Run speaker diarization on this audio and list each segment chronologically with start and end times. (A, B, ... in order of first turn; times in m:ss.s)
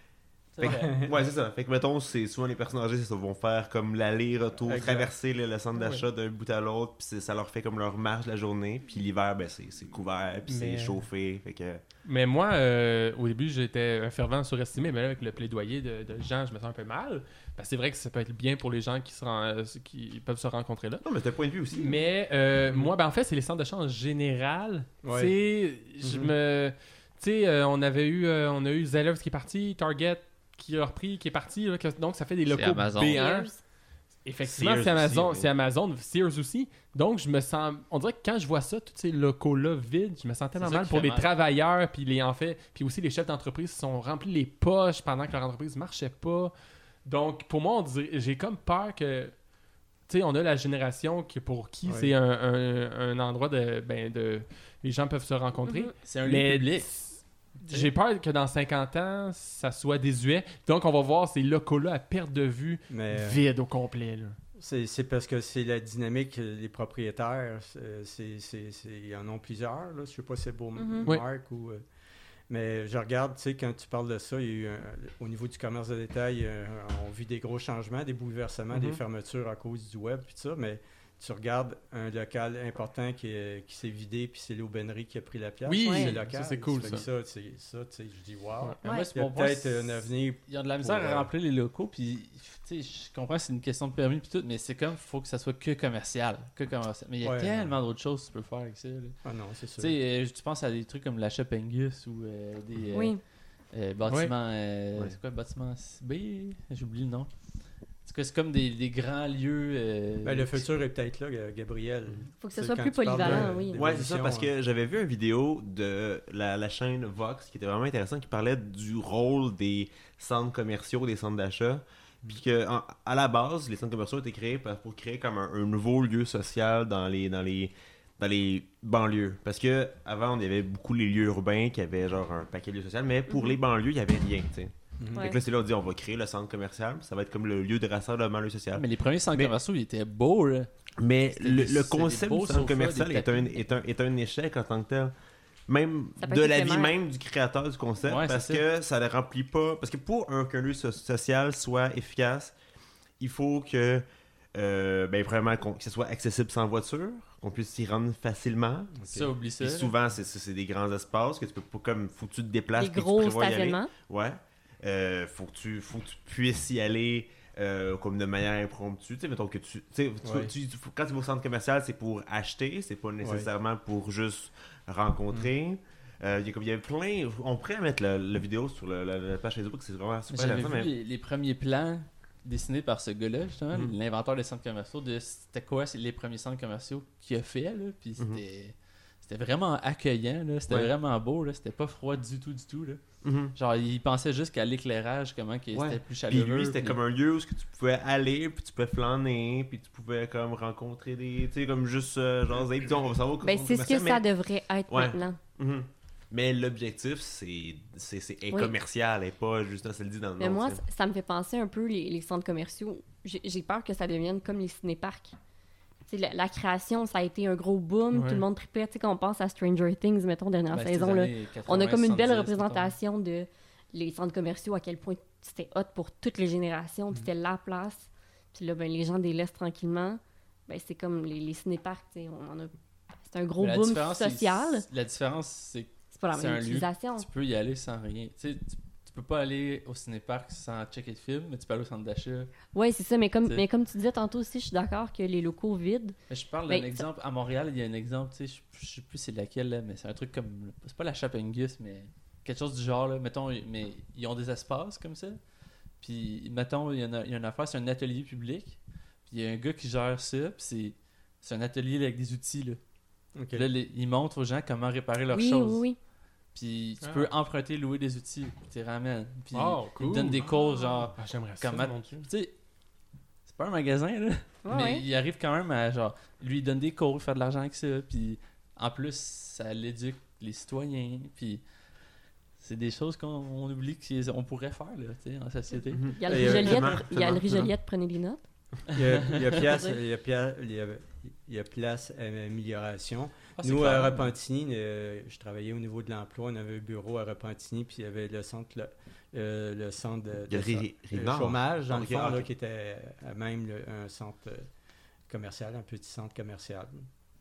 0:00.5-0:01.1 A
0:00.6-0:01.1 B
0:00.6-0:11.8 C
0:04.6-0:05.1 B
0:05.8-0:06.0 D
0:10.5-0:11.0 D
0:12.0-0:21.0 D
0:21.0-0:22.0 C
0:21.7-0:33.5 D
0:22.7-0:22.9 B
0:25.0-0:25.3 B
0:26.0-0:26.3 B
0:32.5-0:33.2 A
0:33.1-0:33.6 E
0:34.2-0:46.5 D
0:34.4-0:35.5 C
0:40.6-0:41.3 A
0:47.0-0:49.4 D
0:50.1-1:04.4 D
0:51.8-0:52.1 B
0:55.6-0:55.9 E
0:56.0-0:56.9 A
1:02.9-1:03.4 B
1:04.6-1:11.8 B
1:10.8-1:11.1 E
1:12.5-1:31.3 B
1:18.7-1:19.0 D
1:25.6-1:27.1 D
1:25.8-1:26.2 E
1:28.8-1:29.1 E
1:28.8-1:39.2 A
1:37.2-1:37.7 B
1:39.2-1:39.9 B
1:39.8-1:43.2 A
1:42.9-1:43.2 E
1:43.7-1:47.3 A
1:48.0-1:50.7 A
1:50.2-1:54.5 B
1:52.4-1:53.8 E
1:53.7-2:19.5 C
2:13.3-2:13.6 E
2:15.0-2:15.3 B
2:18.7-2:20.7 A
2:21.0-2:25.1 C
2:21.4-2:23.5 A
2:25.7-2:32.5 C
2:26.2-2:27.0 E
2:28.0-2:28.6 A
2:33.2-2:38.9 C
2:39.0-2:39.3 B
2:39.0-2:39.9 A
2:39.6-3:00.9 C
2:42.8-2:43.9 E
2:50.2-2:50.5 B
2:53.2-2:53.5 B
3:00.3-3:13.0 A
3:13.2-3:13.5 C
3:13.5-3:17.0 A
3:15.7-3:24.3 C
3:23.4-3:25.4 E
3:24.9-3:30.8 C
3:30.4-3:35.3 E
3:36.1-3:52.7 E
3:38.1-3:38.4 D
3:40.7-3:42.9 A
3:53.3-3:54.8 E
3:53.6-4:02.5 A
3:56.1-3:57.3 E
4:02.7-4:06.2 E
4:06.3-4:15.4 A
4:06.7-4:07.0 E
4:16.0-4:22.8 A
4:23.4-4:23.7 B
4:23.5-4:25.8 A
4:25.3-4:26.0 E
4:26.5-4:32.5 A
4:27.0-4:27.3 D
4:29.5-4:30.6 D
4:30.5-4:31.0 E
4:31.2-4:32.2 D
4:33.4-4:41.6 A
4:34.6-4:35.0 E
4:42.6-4:46.4 A
4:45.9-4:47.7 C
4:46.1-4:48.4 E
4:46.3-4:47.0 B
4:48.9-5:04.7 B
4:49.6-4:50.0 E
4:53.6-4:54.3 A
5:00.5-5:02.5 C
5:05.3-5:07.1 B